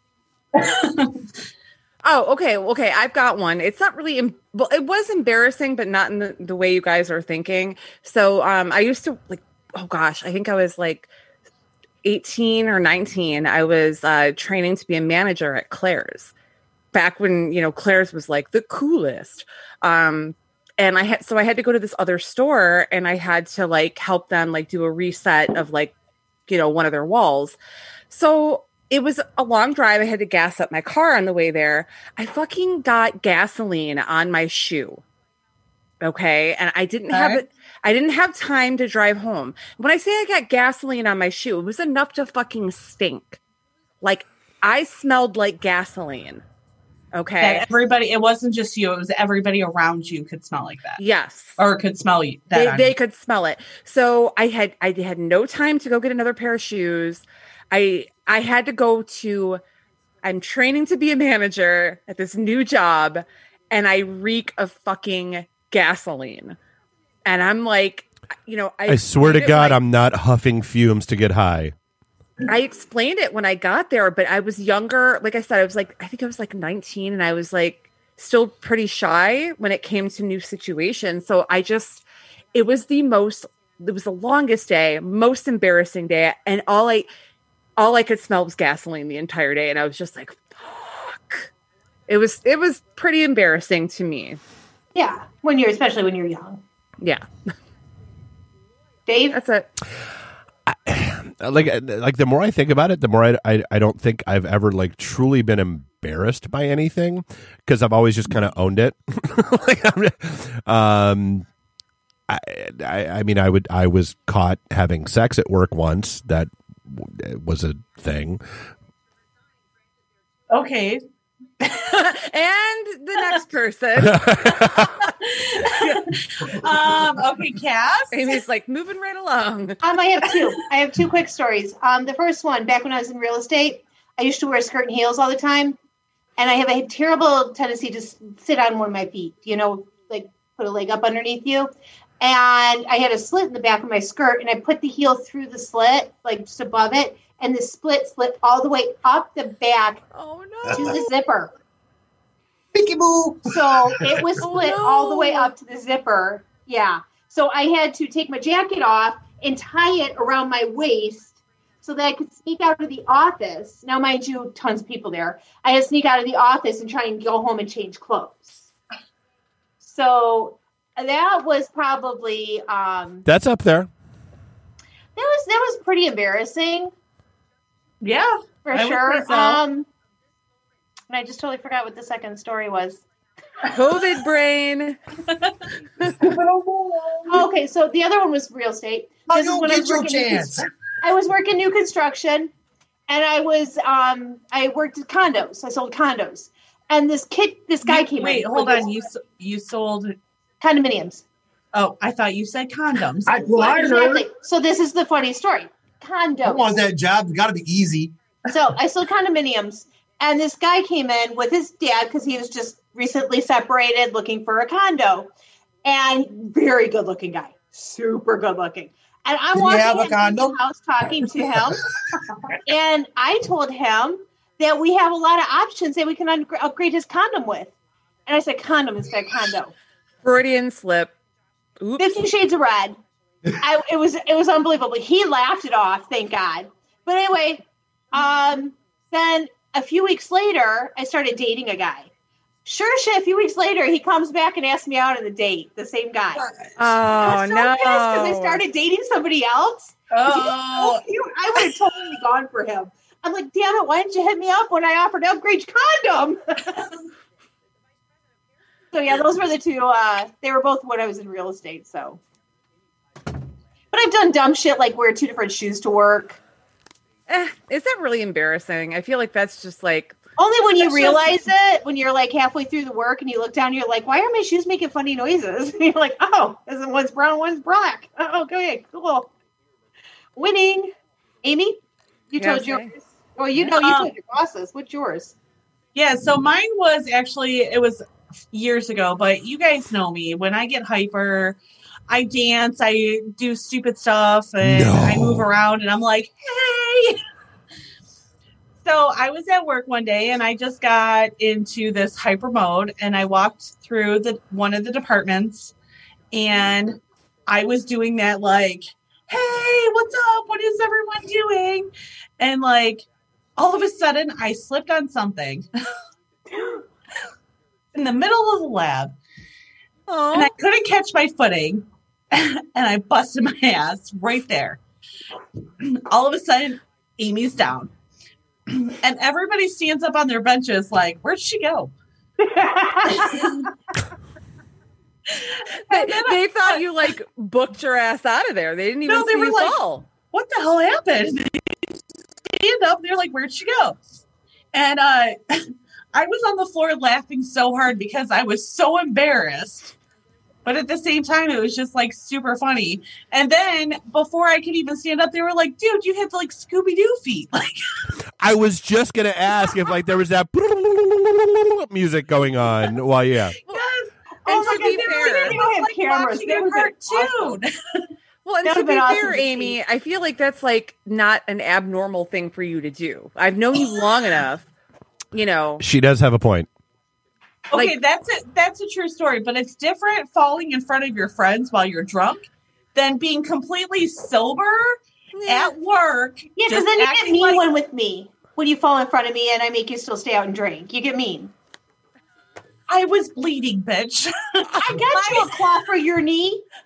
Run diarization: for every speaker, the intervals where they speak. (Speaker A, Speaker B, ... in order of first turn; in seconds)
Speaker A: 0.5-1.1, 37.1-37.4, 47.4-51.0, 51.6-52.9, 120.5-121.0, 121.6-121.9, 125.1-128.3, 178.0-179.6, 197.8-200.2, 201.7-203.4, 246.3-246.7, 250.1-251.8, 271.0-271.3, 283.8-284.1, 285.9-291.6, 292.1-297.2, 298.8-305.7, 306.3-313.1, 313.6-315.7, 317.9-319.1, 320.3-324.8, 325.8-327.9, 328.7-331.9, 333.1-333.7, 335.3-336.9, 339.1-344.0, 344.7-349.9, 350.6-357.8, 363.7-367.7, 377.7-387.6, 392.9-395.6
Speaker B: 2.0-11.1, 12.0-16.3, 16.9-25.9, 26.5-27.6, 28.1-35.0, 36.0-43.4, 44.0-46.4, 47.1-47.6, 51.0-51.6, 52.5-59.6, 60.2-66.6, 67.2-69.8, 72.4-87.1, 87.8-91.5, 92.1-94.4, 99.3-99.7, 121.8-124.9, 128.1-129.8, 150.1-151.1, 154.4-155.5, 183.6-185.0, 230.2-231.1, 231.8-232.2, 246.8-248.6, 267.3-270.1, 282.4-282.9, 320.1-320.5, 335.9-340.0, 364.5-365.6, 368.4-374.7, 375.3-375.8, 385.3-385.7
Speaker C: 68.9-71.7, 100.7-111.5, 112.3-118.4, 124.0-124.8, 173.2-173.9, 294.6-295.4, 358.4-363.6, 375.8-376.7
Speaker D: 94.9-96.6, 99.1-99.4, 129.8-135.8, 136.4-150.0, 150.7-151.5, 153.5-168.7, 169.8-173.2, 175.2-176.9, 178.7-179.9, 181.1-183.0, 187.3-192.5, 193.1-199.0, 200.6-201.2, 203.4-206.8, 208.5-215.3, 215.8-221.8, 222.7-227.7, 228.3-229.7, 232.0-233.0, 233.6-242.1, 242.6-256.9, 258.9-262.2, 263.9-266.4, 270.4-279.3, 280.4-280.9, 281.4-281.8, 282.3-285.3, 332.4-333.5, 364.4-367.6, 368.6-369.8, 386.6-391.5, 394.8-396.6
Speaker E: 152.7-154.4, 186.2-187.4, 189.3-190.7, 203.2-204.2, 206.4-208.1, 219.5-220.6